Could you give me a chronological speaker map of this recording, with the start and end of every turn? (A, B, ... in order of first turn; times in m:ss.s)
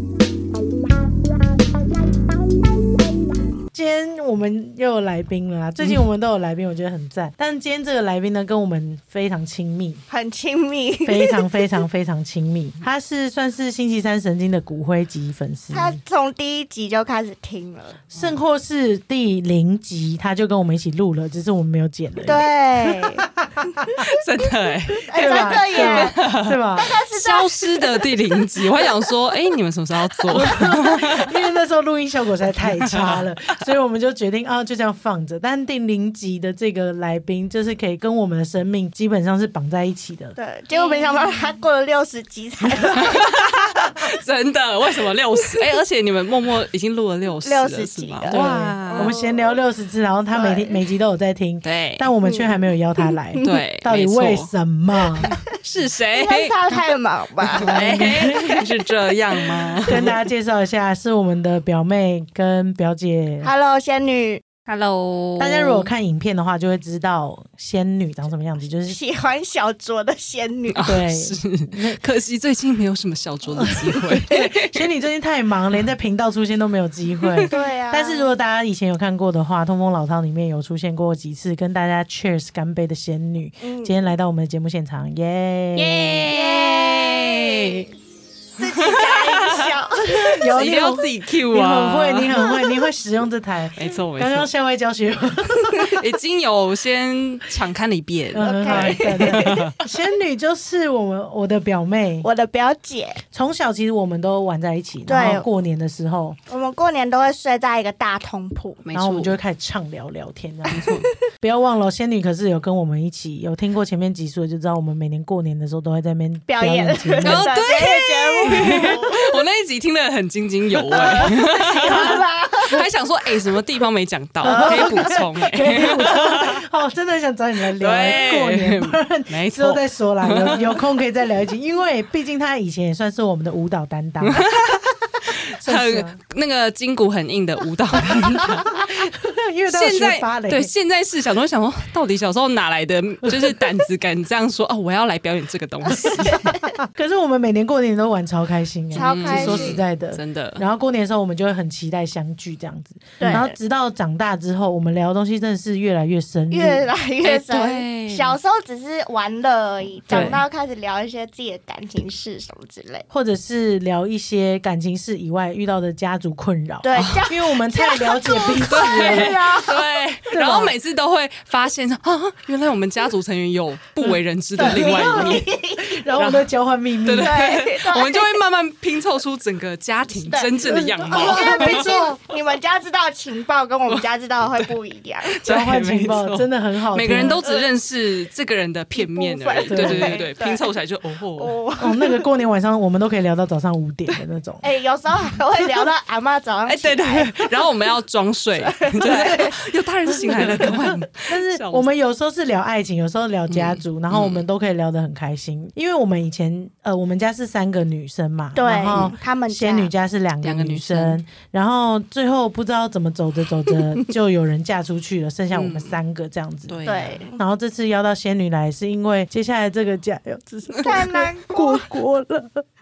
0:03.7-0:10.0 A
0:10.1-0:11.4 B
0:11.0-0:16.0 A
0:15.7-0:18.0 B
0:18.1-0:24.0 A
0:22.2-0:23.9 B
0:24.1-0:26.6 C
0:25.1-0:26.2 B
0:25.1-0:26.9 A
0:26.8-0:28.1 B
0:27.1-0:31.3 C
0:30.3-0:40.4 A
0:32.7-0:33.3 C
0:40.4-0:44.0 B
0:40.8-0:41.0 C
0:43.0-0:49.1 C
0:47.4-0:49.6 B
0:48.3-0:55.3 A
0:50.3-0:50.8 B
0:51.6-0:52.1 C
0:52.2-0:53.6 B
0:53.4-0:54.5 C
0:55.0-0:55.5 B
0:55.5-0:56.5 C
0:56.1-0:58.6 B
0:57.5-0:58.6 A
0:57.6-1:00.1 C
0:59.8-1:03.5 A
1:03.4-1:04.4 B
1:04.7-1:05.9 C
1:05.4-1:09.0 A
1:08.9-1:10.9 B
1:10.7-1:14.8 C
1:10.8-1:12.0 A
1:13.5-1:26.2 A
1:17.2-1:17.5 C
1:17.5-1:18.3 B
1:23.6-1:24.1 B
1:25.8-1:27.8 B
1:25.9-1:27.8 C
1:28.6-1:30.4 B
1:28.8-1:29.7 C
1:30.3-1:36.0 A
1:30.4-1:32.4 C
1:32.4-1:32.8 B
1:33.8-1:34.5 C
1:35.8-1:39.7 C
1:38.3-1:42.3 A
1:38.4-1:39.6 B
1:42.2-1:43.2 B
1:43.3-1:46.4 A
1:45.1-1:45.5 B
1:46.5-1:48.8 B
1:48.8-1:49.4 C
1:48.9-1:50.9 A
1:50.7-1:51.1 C
1:51.4-1:57.5 A
1:56.5-1:59.4 B
1:57.2-2:06.6 C
1:58.5-1:59.0 A
2:00.9-2:01.4 A
2:00.9-2:02.8 B
2:04.4-2:05.4 B
2:04.4-2:14.5 A
2:07.8-2:10.8 C
2:14.2-2:19.1 C
2:15.6-2:16.2 A
2:17.9-2:20.7 A
2:19.7-2:26.5 C
2:25.9-2:36.9 A
2:26.3-2:26.6 B
2:28.9-2:30.6 C
2:28.9-2:29.8 B
2:33.2-2:33.6 B
2:36.5-2:43.0 B
2:37.2-2:38.4 C
2:40.1-2:40.4 C
2:40.1-2:40.4 A
2:43.1-2:49.4 A
2:46.8-2:49.8 B
2:47.0-2:47.2 C
2:48.7-2:55.5 C
2:50.3-2:50.7 A
2:54.0-2:57.4 A
2:54.6-2:56.0 B
2:56.1-2:56.5 C
2:57.0-3:01.9 C
2:57.2-2:58.4 B
3:00.1-3:00.5 B
3:00.6-3:02.2 A
3:01.1-3:05.4 B
3:03.9-3:04.7 C
3:05.4-3:11.6 C
3:05.4-3:07.4 A
3:07.1-3:07.7 B
3:08.9-3:10.7 B
3:09.7-3:10.3 A
3:11.4-3:12.3 B
3:11.8-3:14.7 A
3:14.1-3:17.6 B
3:16.7-3:21.9 C
3:18.6-3:19.5 B
3:19.0-3:19.4 A
3:20.2-3:36.8 A
3:23.5-3:24.4 C
3:28.5-3:29.9 B
3:30.4-3:31.2 C
3:35.5-3:36.0 C
3:36.7-3:37.2 C
3:36.8-3:37.4 B
3:37.4-3:42.6 A
3:40.7-3:41.0 C
3:40.8-3:41.8 B